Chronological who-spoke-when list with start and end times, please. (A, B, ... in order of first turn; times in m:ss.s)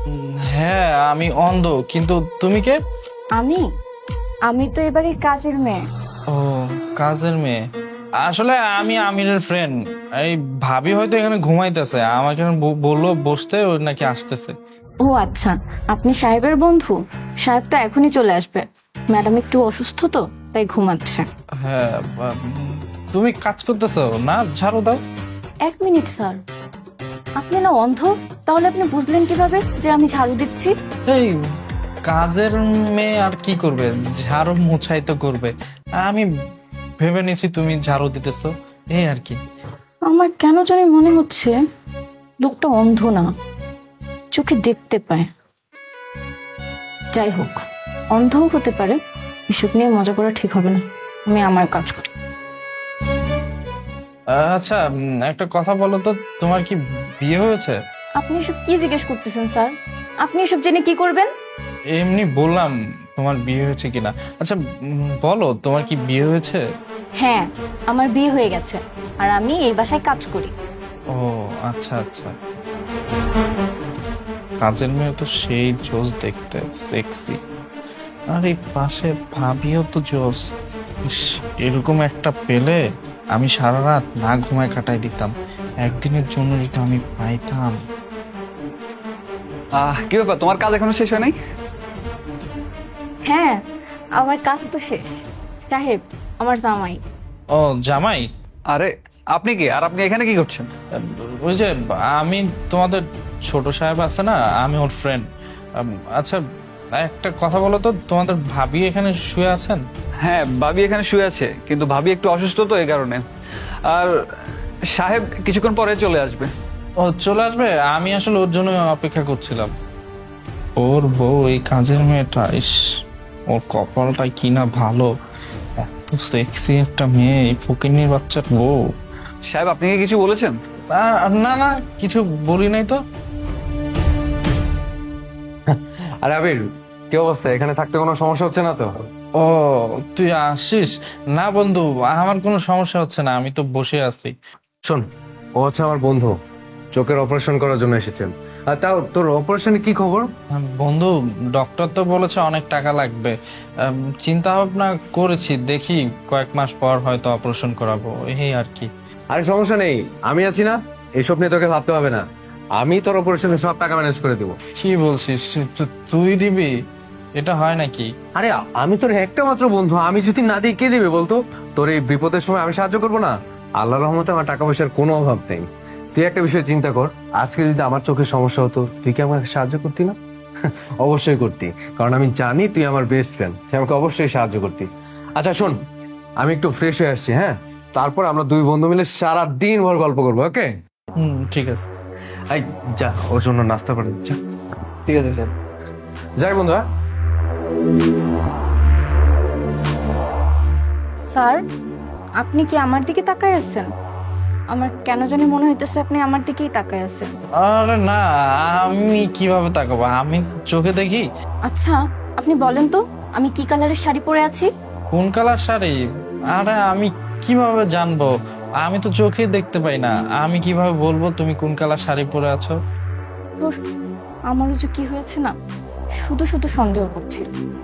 0:00.1-0:02.8 A
0:03.4-0:03.6 B
0:04.5-0:05.8 B
0:06.3-0:07.6 A
0:08.2-0:14.5 A
0:15.0-0:21.2 B
0:21.6-0:25.0 A
0:25.7-0:26.4 B
0:27.4-0:30.7 B
0:32.1-0:36.2 A
0:37.0-0:39.4 A
0:40.1-0:41.5 B
0:42.4-0:43.3 B
0:44.3-0:45.3 B
0:47.1-0:47.6 B
0:48.1-0:49.0 B
0:49.5-0:52.1 B
0:54.3-0:57.8 A
0:58.2-1:01.3 B
1:01.9-1:04.6 A
1:05.2-1:06.6 A
1:07.2-1:10.5 B
1:11.1-1:12.3 A
1:14.6-1:17.4 A
1:18.3-1:20.4 A
1:21.0-1:22.8 A
1:23.3-1:27.8 A
1:29.8-1:31.3 C
1:33.2-1:33.6 B
1:34.2-1:37.0 B
1:37.5-1:38.3 A
1:38.7-1:40.7 C
1:41.0-1:45.2 A
1:45.8-1:46.4 A
1:47.0-1:49.8 A
1:50.2-1:53.2 C
1:54.9-1:56.5 C
1:57.0-1:59.7 A
2:00.8-2:02.7 A
2:03.5-2:05.1 A
2:05.8-2:08.8 A
2:09.4-2:10.6 C
2:10.9-2:13.0 A
2:15.7-2:18.9 D
2:19.4-2:24.3 A
2:25.6-2:26.3 D
2:26.9-2:30.3 D
2:30.5-2:38.9 A
2:39.3-2:42.2 D
2:42.8-2:44.6 D
2:44.8-2:46.7 A
2:47.4-2:48.1 A
2:48.4-3:05.8 D
3:06.4-3:10.7 D
3:11.2-3:11.9 A
3:12.5-3:14.4 D
3:15.1-3:15.5 C
3:16.4-3:16.8 D
3:21.3-3:21.6 B
3:22.4-3:23.9 B
3:24.7-3:27.3 B
3:27.6-3:31.2 A
3:31.7-3:34.7 B
3:35.1-3:36.0 A
3:36.5-3:38.3 A
3:38.8-3:42.8 A
3:44.5-3:45.5 B
3:46.2-3:47.5 B